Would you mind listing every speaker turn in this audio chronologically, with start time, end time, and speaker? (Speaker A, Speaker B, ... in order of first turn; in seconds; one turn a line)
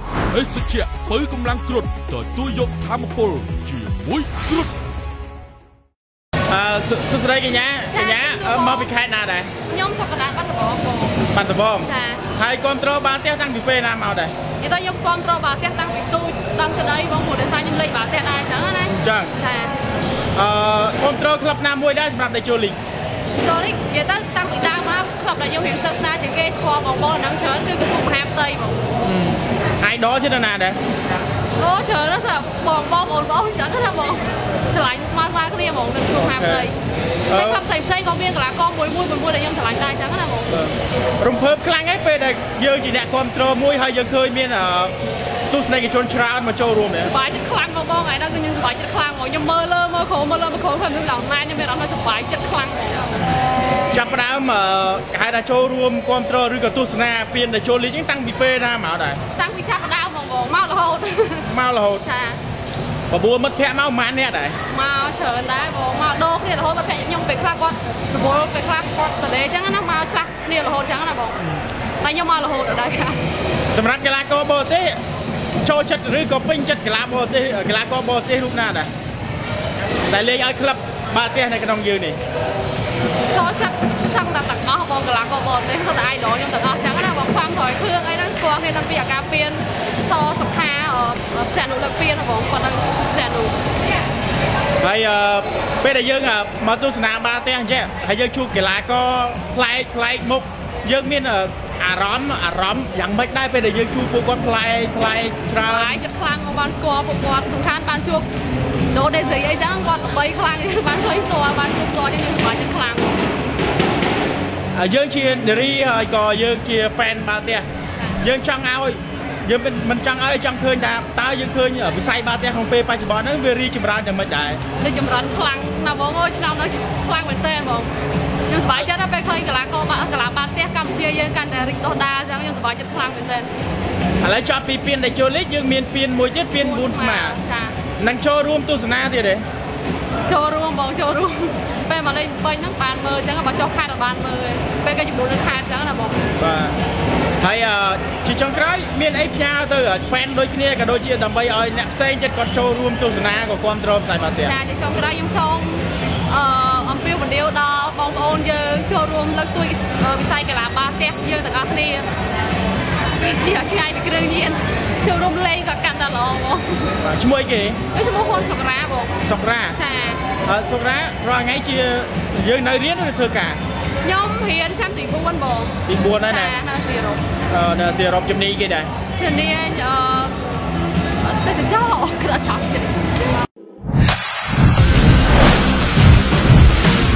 Speaker A: 0.3-4.7
Speaker B: 6.5-9.5
Speaker C: 7.9-8.9
Speaker C: 9.7-11.2
Speaker B: 11.3-14.3
Speaker C: 11.9-12.2
Speaker C: 14.6-19.7
Speaker B: 18.9-19.4
Speaker B: 20.4-22.8
Speaker C: 23.4-28.8
Speaker B: 29.0-30.8
Speaker C: 31.6-36.8
Speaker B: 36.1-36.7
Speaker B: 37.3-37.6
Speaker C: 37.3-40.5
Speaker B: 40.5-44.9
Speaker B: 45.5-47.1
Speaker C: 47.0-53.2
Speaker B: 53.9-59.2
Speaker C: 59.4-61.5
Speaker B: 61.5-62.0
Speaker C: 62.0-62.4
Speaker B: 63.1-64.6
Speaker C: 64.7-71.4
Speaker C: 72.0-73.2
Speaker B: 73.7-75.0
Speaker B: 75.6-78.9
Speaker B: 80.1-82.2
Speaker C: 83.3-93.6
Speaker B: 94.8-106.0
Speaker C: 105.6-108.3
Speaker C: 108.9-113.2
Speaker B: 114.8-117.7
Speaker B: 118.2-124.6
Speaker C: 124.8-127.9
Speaker C: 128.5-133.5
Speaker B: 134.2-137.4
Speaker C: 136.6-137.8
Speaker B: 138.0-139.4
Speaker C: 140.3-146.2
Speaker B: 146.4-146.8
Speaker B: 147.4-154.6
Speaker C: 154.4-162.1
Speaker C: 163.2-166.9
Speaker B: 167.0-167.8
Speaker C: 167.9-169.2
Speaker B: 169.2-169.8
Speaker C: 169.8-170.2
Speaker B: 170.4-173.6
Speaker C: 174.0-175.7
Speaker B: 175.9-176.6
Speaker C: 176.3-177.2
Speaker B: 177.5-178.9
Speaker C: 179.2-180.4
Speaker C: 181.2-183.3